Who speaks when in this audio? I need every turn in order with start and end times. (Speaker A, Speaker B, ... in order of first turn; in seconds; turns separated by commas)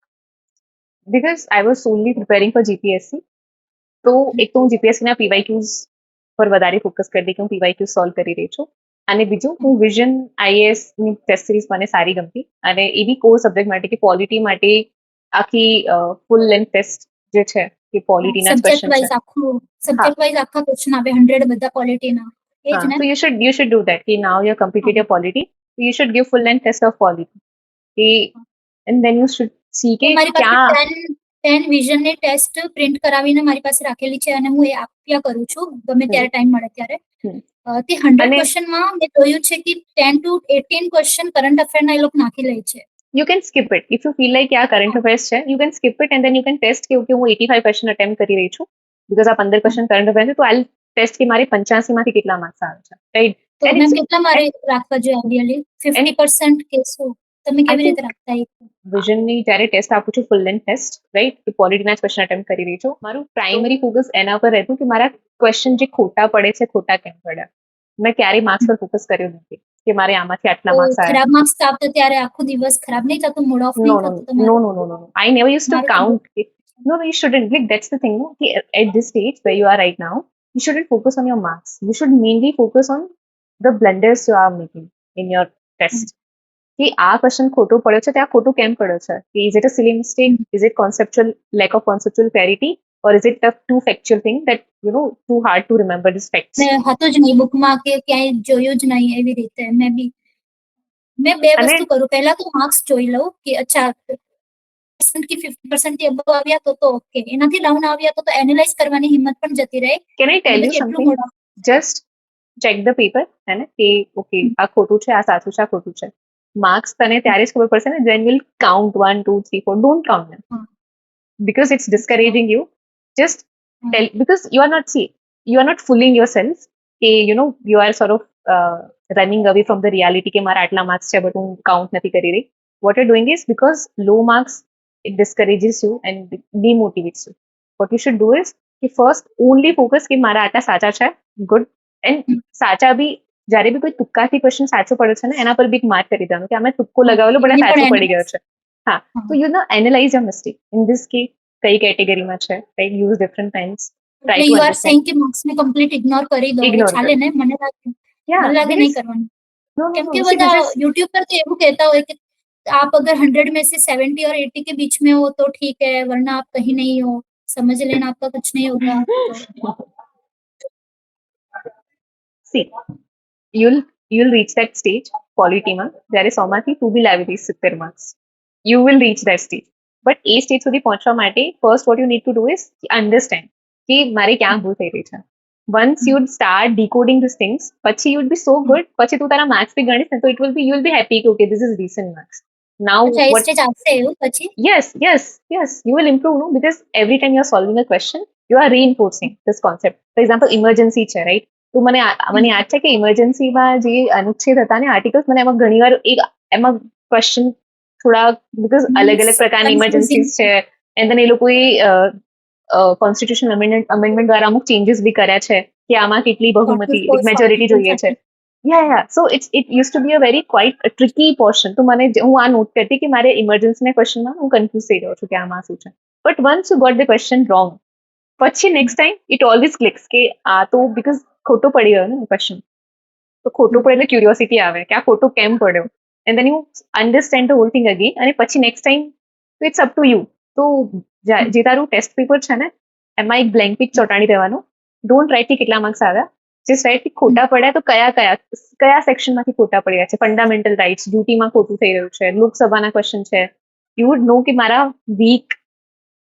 Speaker A: 1.1-3.2, Speaker A: 4.0-19.1, Speaker B: 18.2-23.0, Speaker A: 22.7-27.3, Speaker A: 28.0-28.3, Speaker A: 28.9-30.8, Speaker B: 30.0-37.0, Speaker B: 37.7-42.8, Speaker A: 38.2-38.5, Speaker A: 43.1-54.4, Speaker B: 53.6-58.5, Speaker A: 57.7-58.0, Speaker A: 58.9-67.5, Speaker A: 68.0-71.2, Speaker B: 70.7-74.6, Speaker A: 73.8-83.1, Speaker B: 75.7-76.2, Speaker A: 83.6-86.1, Speaker A: 86.8-96.7, Speaker B: 96.6-100.1, Speaker B: 101.2-104.2, Speaker A: 101.6-101.9, Speaker B: 105.0-111.3, Speaker A: 110.2-112.0, Speaker A: 112.6-120.4, Speaker A: 121.4-155.0, Speaker B: 122.0-122.3, Speaker B: 147.0-148.2, Speaker B: 154.3-159.3, Speaker A: 156.6-157.1, Speaker A: 158.3-159.0, Speaker A: 159.8-160.7, Speaker B: 159.9-162.2, Speaker B: 162.7-169.3, Speaker A: 169.1-169.8, Speaker A: 173.5-193.4, Speaker B: 193.1-194.5, Speaker A: 194.6-212.1, Speaker B: 208.9-210.5, Speaker A: 212.7-227.8, Speaker B: 216.7-218.2, Speaker A: 228.4-232.6, Speaker A: 233.4-255.6